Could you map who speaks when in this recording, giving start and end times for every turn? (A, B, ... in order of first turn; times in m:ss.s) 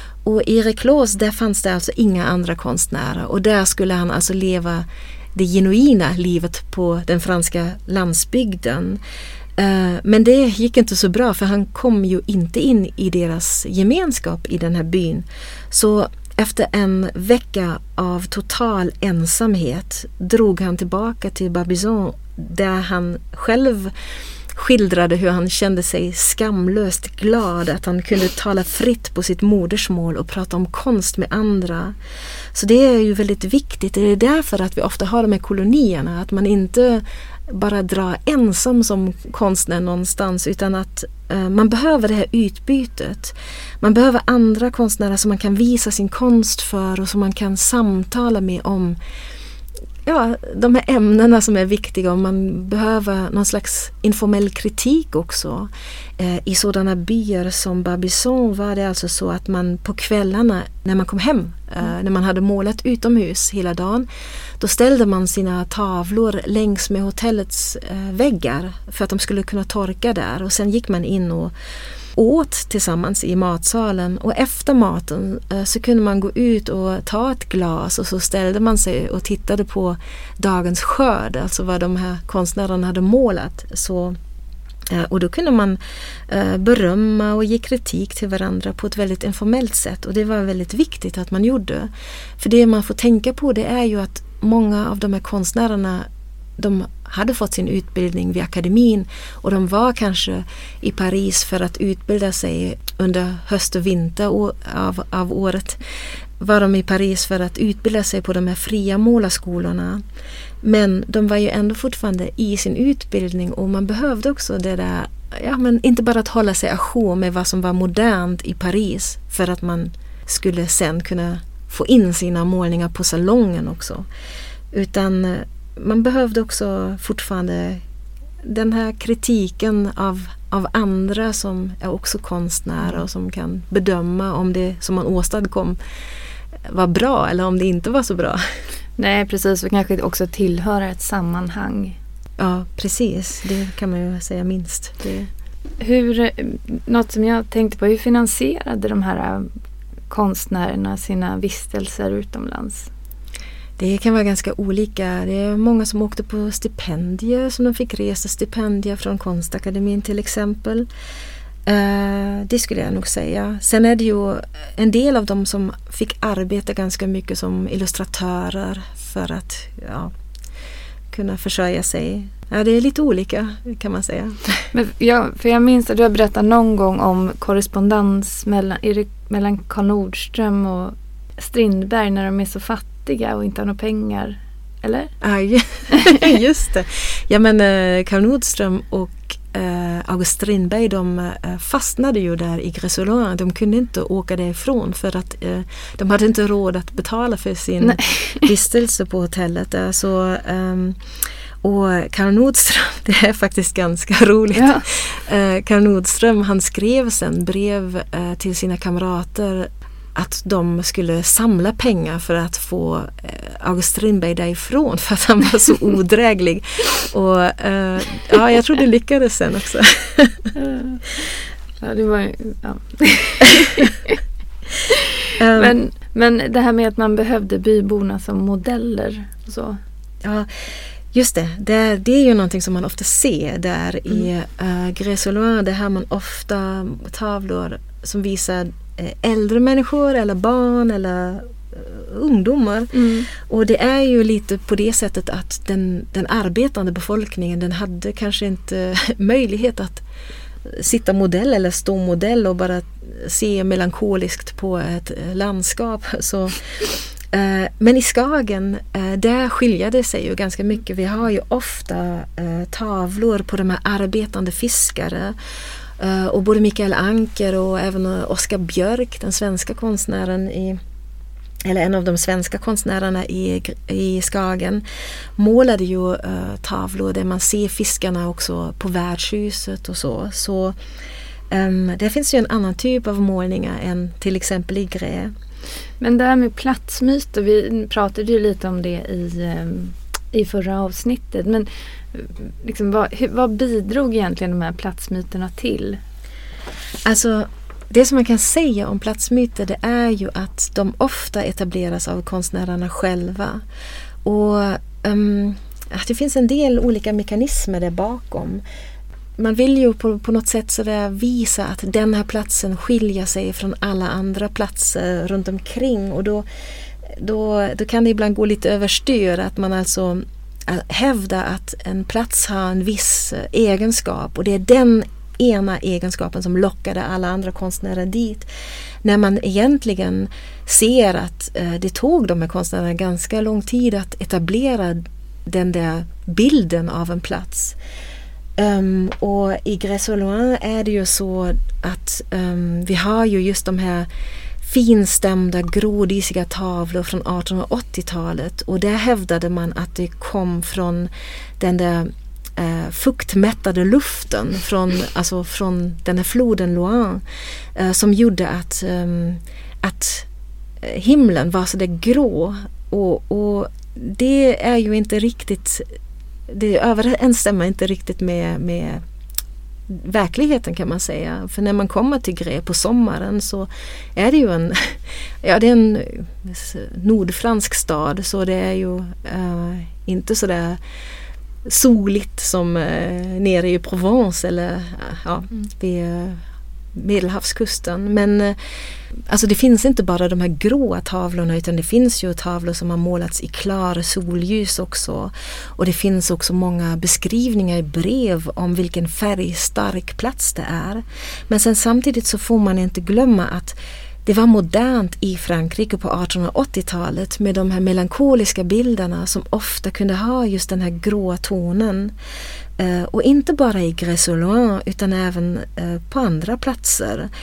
0:00.2-0:09.0 A
0:09.6-0:23.9 A
0:24.5-0:32.0 A
0:32.5-0:49.0 A
0:50.1-1:04.1 A
1:04.6-1:11.5 A
1:12.2-1:24.2 A
1:24.9-1:36.1 A
1:36.6-1:45.8 A
1:46.4-1:50.0 A
1:50.6-2:04.1 A
2:04.7-2:07.8 A
2:08.4-2:15.8 A
2:16.7-2:18.4 A
2:19.0-2:22.0 B
2:22.4-2:25.3 A
2:25.8-2:29.5 B
2:30.1-2:32.9 B
2:33.8-2:40.9 A
2:41.7-2:50.1 A
2:51.1-2:54.7 A
2:54.7-3:05.1 B
3:05.2-3:40.5 A
3:05.9-3:06.2 B
3:17.8-3:18.5 B
3:24.6-3:24.8 B
3:40.6-3:41.0 B
3:41.8-3:44.2 B
3:45.4-3:45.8 A
3:45.5-3:49.8 B
3:50.2-3:50.5 A
3:51.1-4:10.0 A
4:02.9-4:03.3 B
4:10.6-4:25.4 A
4:26.0-4:30.8 A
4:31.6-4:34.8 A
4:35.4-4:40.8 A
4:41.5-4:45.3 A
4:46.0-4:56.0 B
4:57.0-5:03.6 A
5:04.2-5:08.6 A
5:09.4-5:16.5 A
5:17.0-5:28.5 A
5:29.0-5:37.8 A
5:38.6-5:44.1 A
5:44.6-5:57.2 A
5:57.8-6:00.3 A
6:00.8-6:05.9 A
6:06.5-6:09.0 A
6:09.9-6:20.8 A
6:21.6-6:26.4 A
6:26.9-6:52.1 A
6:52.8-6:57.3 A